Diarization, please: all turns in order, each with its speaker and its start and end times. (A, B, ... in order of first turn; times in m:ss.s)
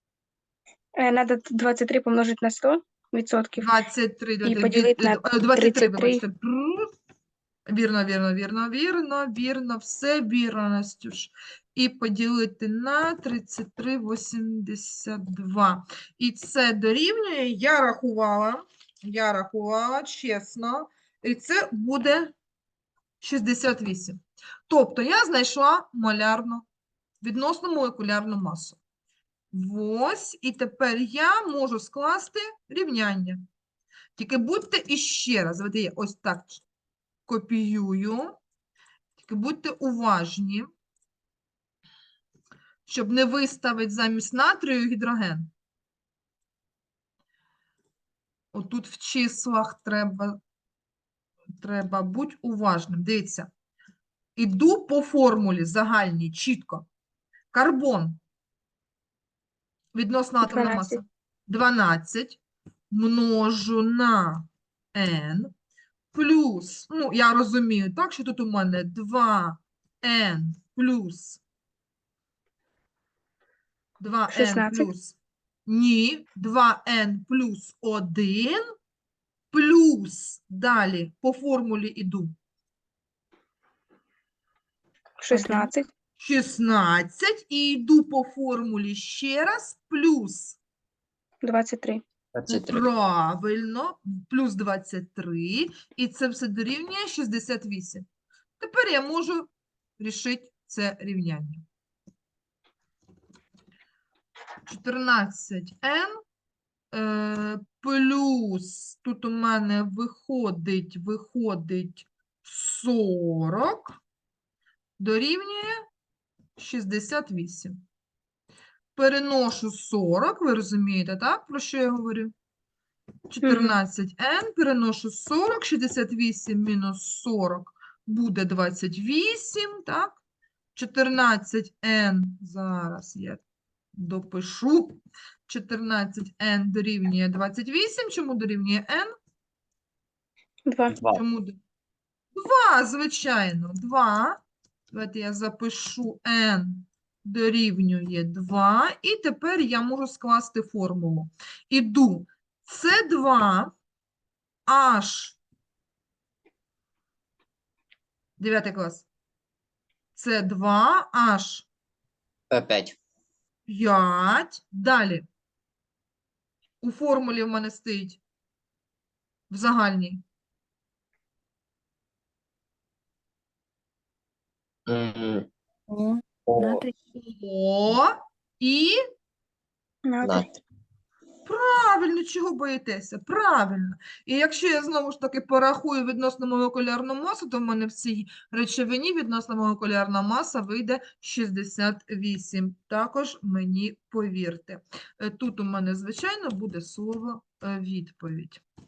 0:01.0-0:03.7 A
0:03.6-0:06.9 B
0:04.4-0:06.2 A
0:07.7-0:22.4 B
0:23.2-0:26.6 B
0:27.2-0:28.8 B
0:29.5-0:33.4 B
0:34.2-0:36.6 B
0:37.3-0:38.4 B
0:39.2-0:40.7 B
0:42.9-0:45.5 B
0:48.5-0:50.4 B
0:51.6-0:53.5 B
0:54.4-0:56.9 B
0:57.5-0:58.2 B
1:00.0-1:05.5 B
1:00.4-1:01.0 A
1:06.1-1:11.4 B
1:14.0-1:15.2 B
1:14.3-1:14.9 A
1:15.7-1:18.6 B
1:19.5-1:22.3 B
1:25.2-1:25.9 A
1:25.3-1:30.6 B
1:31.4-1:32.0 A
1:32.3-1:32.9 C
1:32.5-1:38.0 B
1:38.6-1:41.6 B
1:44.7-1:46.2 B
1:46.9-1:54.0 B
1:55.0-1:55.7 B
1:56.6-1:57.8 B
1:59.0-2:02.3 B
2:03.3-2:10.2 B
2:03.4-2:03.8 A
2:10.8-2:13.4 B
2:14.0-2:19.1 B
2:20.7-2:21.0 A
2:20.9-2:21.2 C
2:21.1-2:21.6 B
2:22.4-2:24.4 B
2:24.9-2:33.7 B
2:34.7-2:35.4 B
2:38.4-2:39.1 B
2:40.2-2:41.7 B
2:42.5-2:43.0 C
2:43.7-2:45.3 B
2:46.8-2:48.2 B
2:49.5-2:50.2 B
2:54.9-2:55.5 C
2:55.9-2:56.9 A
2:56.5-2:56.8 C
2:57.1-2:59.0 B
3:00.0-3:00.4 A
3:00.2-3:00.6 C
3:01.4-3:18.6 B